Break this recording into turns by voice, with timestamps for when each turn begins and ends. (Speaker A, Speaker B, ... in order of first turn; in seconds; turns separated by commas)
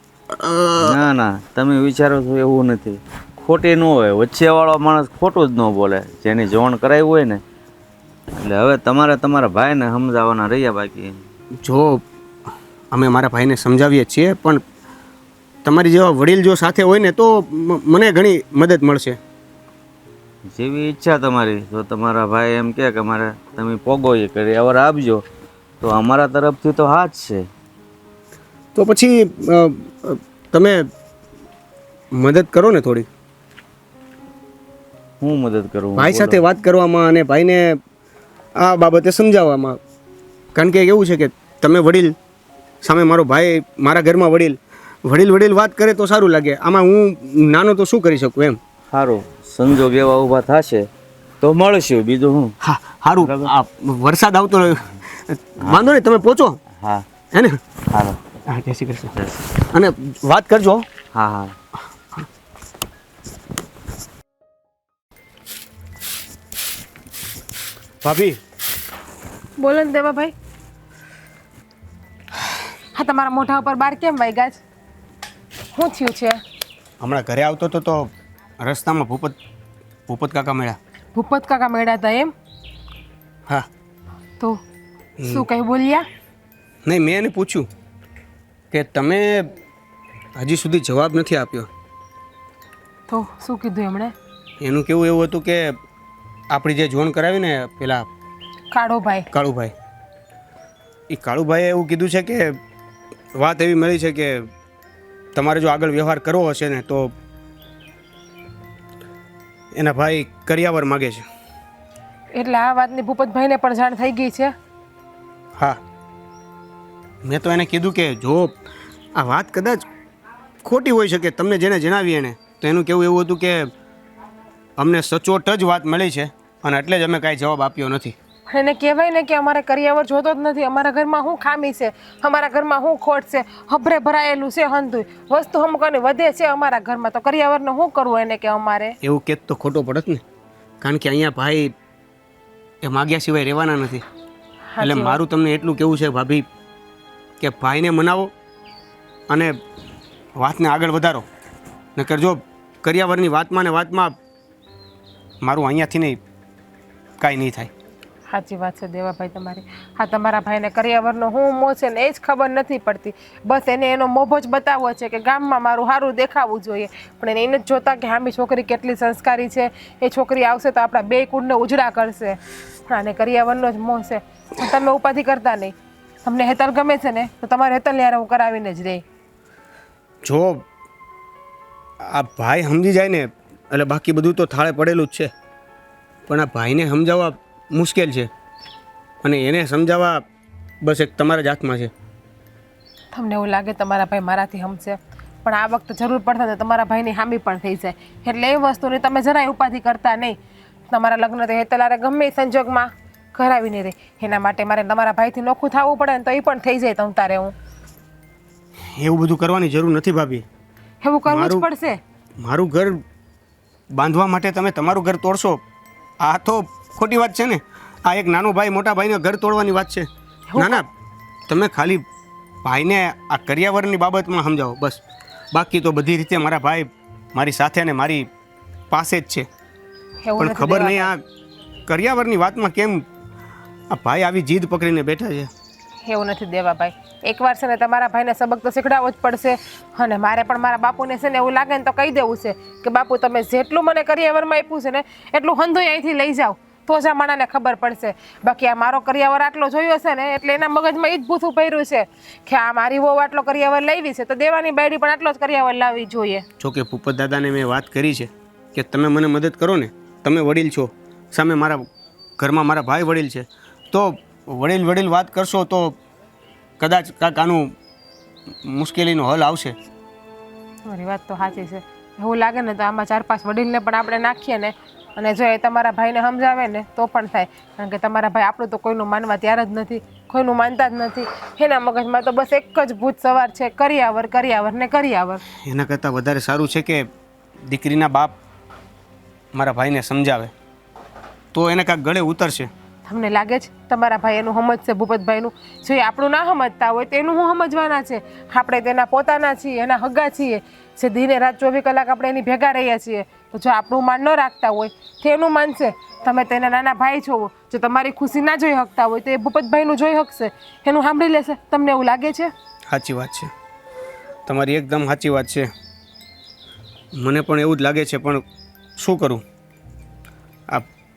Speaker A: 0.3-1.1, Speaker B: 0.8-7.4, Speaker B: 8.3-11.2, Speaker A: 11.6-12.0, Speaker A: 12.9-14.6, Speaker A: 15.6-19.2, Speaker B: 20.4-25.2, Speaker B: 25.8-27.5, Speaker A: 28.7-30.9, Speaker A: 32.1-33.1, Speaker B: 35.2-36.4, Speaker A: 36.0-37.8, Speaker A: 38.6-39.8, Speaker A: 40.5-42.1, Speaker A: 42.8-48.6, Speaker B: 48.9-50.9, Speaker B: 51.4-52.5, Speaker A: 52.6-56.6, Speaker B: 53.2-53.5, Speaker B: 56.8-57.0, Speaker A: 57.3-57.6, Speaker B: 57.9-58.2, Speaker A: 58.5-60.9, Speaker B: 59.1-59.4, Speaker B: 61.1-61.5, Speaker A: 68.0-68.4, Speaker C: 69.6-70.3, Speaker C: 72.9-74.6, Speaker C: 75.7-76.4, Speaker A: 77.0-79.4, Speaker A: 80.1-80.8, Speaker C: 81.1-82.3, Speaker A: 85.2-85.5, Speaker C: 85.2-86.0, Speaker A: 86.8-87.7, Speaker A: 88.7-89.5, Speaker A: 90.3-91.7, Speaker C: 93.1-94.1, Speaker A: 94.6-95.8, Speaker A: 96.5-98.1, Speaker C: 98.7-99.3, Speaker A: 99.3-99.7, Speaker A: 101.1-102.6, Speaker A: 103.3-104.5, Speaker A: 105.3-107.1, Speaker A: 109.7-111.2, Speaker C: 112.3-114.5, Speaker A: 117.2-118.5, Speaker A: 119.2-119.8, Speaker A: 120.6-123.7, Speaker A: 124.8-128.2, Speaker C: 128.5-138.9, Speaker A: 139.0-140.2, Speaker A: 140.8-141.7, Speaker A: 142.8-144.0, Speaker C: 144.7-145.2, Speaker A: 144.8-146.4, Speaker A: 147.4-148.3, Speaker A: 149.3-149.6, Speaker A: 150.3-151.2, Speaker A: 151.9-154.2, Speaker A: 155.4-156.2, Speaker A: 157.2-157.7, Speaker C: 158.3-179.0, Speaker A: 180.2-180.7, Speaker A: 182.0-185.3, Speaker A: 186.3-188.3, Speaker A: 189.2-190.2, Speaker A: 190.8-191.9, Speaker C: 193.1-200.4, Speaker C: 200.9-207.5, Speaker A: 208.9-210.4, Speaker C: 211.0-212.0, Speaker A: 211.3-211.7, Speaker A: 212.4-213.0, Speaker A: 213.9-215.6, Speaker A: 216.2-220.9, Speaker C: 220.5-220.8, Speaker A: 221.5-222.0, Speaker A: 222.6-225.0, Speaker A: 225.5-228.3, Speaker A: 228.9-229.5, Speaker C: 230.2-231.1, Speaker A: 230.4-231.2, Speaker A: 231.9-233.0, Speaker A: 233.9-235.5, Speaker C: 236.1-256.4, Speaker A: 256.6-261.9, Speaker A: 262.4-266.0, Speaker A: 266.8-267.7, Speaker A: 268.6-269.8, Speaker C: 270.8-285.4, Speaker A: 285.5-287.1, Speaker A: 287.6-288.4, Speaker A: 289.5-290.5, Speaker A: 291.5-292.7, Speaker C: 293.1-312.5, Speaker A: 312.9-313.5, Speaker A: 314.4-315.7, Speaker A: 317.1-318.4, Speaker A: 319.0-319.4